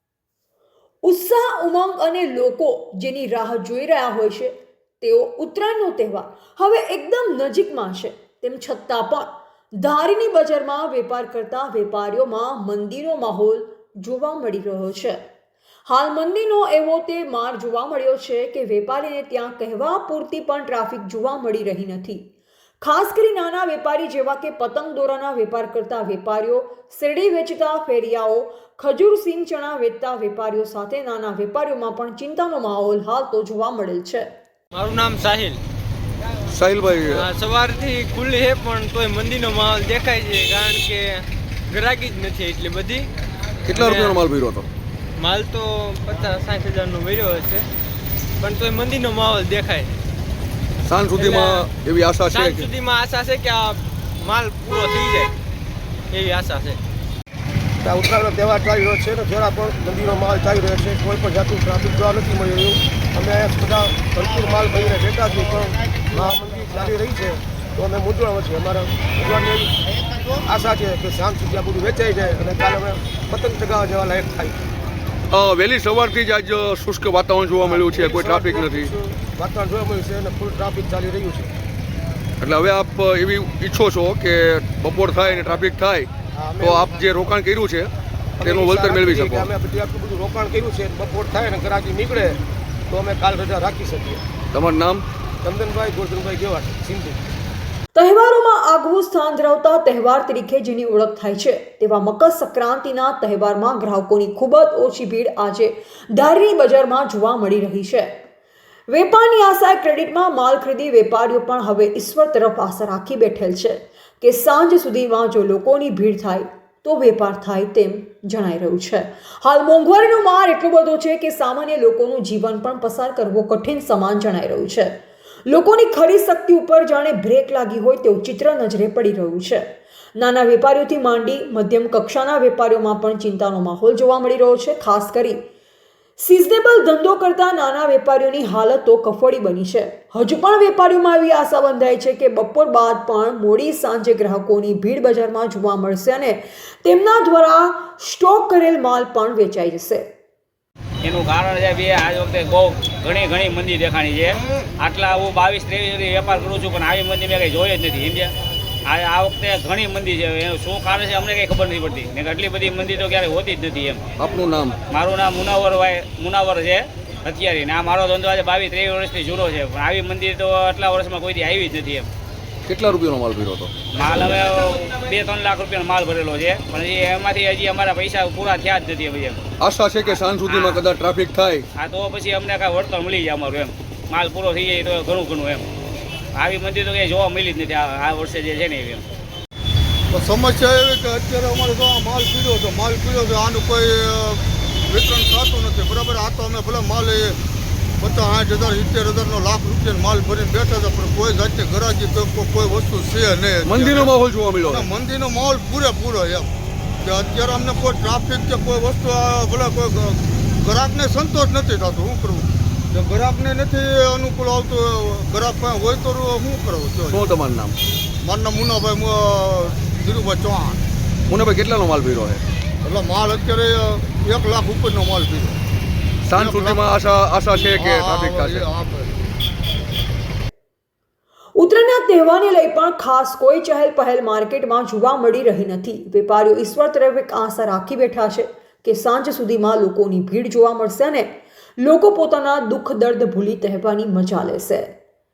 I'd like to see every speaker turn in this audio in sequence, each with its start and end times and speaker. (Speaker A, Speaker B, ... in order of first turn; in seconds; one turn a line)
Speaker A: 1.0-15.2
Speaker A: 15.9-22.3
Speaker A: 22.8-34.3
Speaker B: 34.7-35.6
Speaker C: 36.5-37.2
Speaker B: 37.1-43.1
Speaker C: 43.6-44.7
Speaker B: 43.7-44.1
Speaker B: 45.2-47.6
Speaker B: 48.4-50.0
Speaker C: 50.8-52.7
Speaker B: 51.2-51.7
Speaker B: 52.3-55.3
Speaker B: 56.1-56.8
Speaker D: 57.8-69.7
Speaker D: 70.4-74.7
Speaker C: 75.3-78.9
Speaker D: 77.6-81.5
Speaker C: 82.4-86.1
Speaker D: 86.3-86.9
Speaker C: 86.6-87.9
Speaker D: 88.4-94.2
Speaker C: 88.4-89.5
Speaker C: 94.5-95.0
Speaker D: 95.4-97.2
Speaker A: 97.9-108.2
Speaker A: 108.9-129.6
Speaker A: 130.2-135.4
Speaker A: 136.2-150.1
Speaker E: 151.0-158.3
Speaker E: 158.9-164.1
Speaker C: 164.2-164.8
Speaker E: 164.9-172.1
Speaker C: 172.7-173.7
Speaker E: 173.9-179.4
Speaker C: 179.6-181.7
Speaker E: 180.1-180.8
Speaker E: 181.8-185.7
Speaker E: 186.3-189.1
Speaker F: 190.1-197.4
Speaker F: 198.0-204.1
Speaker C: 203.6-204.9
Speaker F: 204.7-206.5
Speaker F: 207.0-217.2
Speaker C: 217.1-217.8
Speaker F: 218.2-220.8
Speaker C: 221.3-222.4
Speaker F: 222.8-225.6
Speaker C: 226.2-228.7
Speaker F: 226.3-226.8
Speaker F: 227.8-229.1
Speaker A: 231.6-244.9